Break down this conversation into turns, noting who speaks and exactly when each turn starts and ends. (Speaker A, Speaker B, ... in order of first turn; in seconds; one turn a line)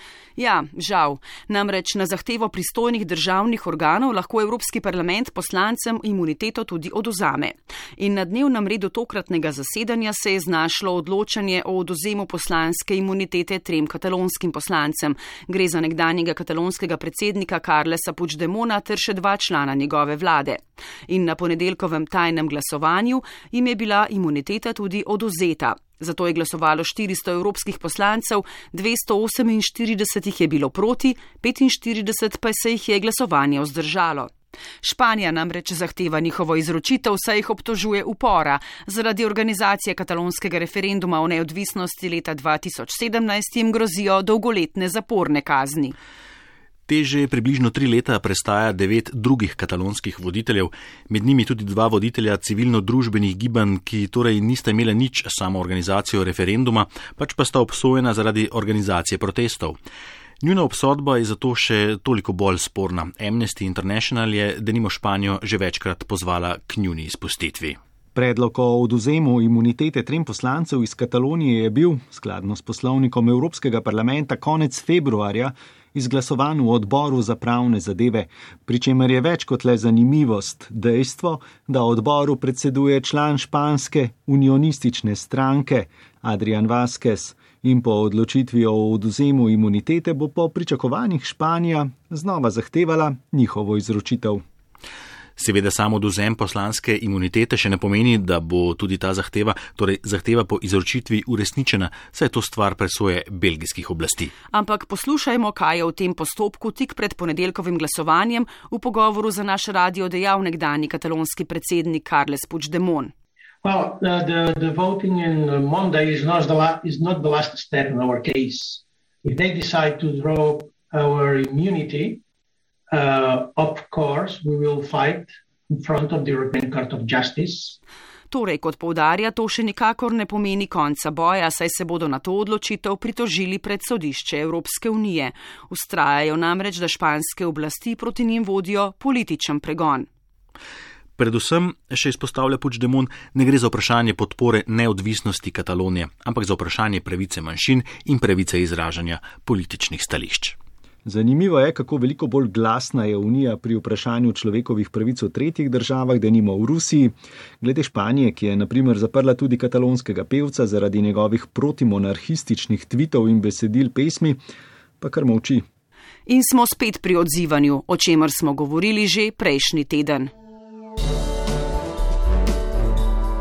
Speaker A: 0.4-46.0
Speaker B: 46.9-59.8
Speaker B: 60.4-67.8
Speaker C: 68.2-94.4
Speaker B: 95.4-104.3
Speaker A: 104.5-113.1
Speaker D: 113.6-122.2
Speaker D: 122.9-127.8
Speaker A: 128.3-140.1
Speaker B: 141.2-150.6
Speaker C: 151.1-164.4
Speaker C: 165.0-165.6
Speaker A: 166.3-170.3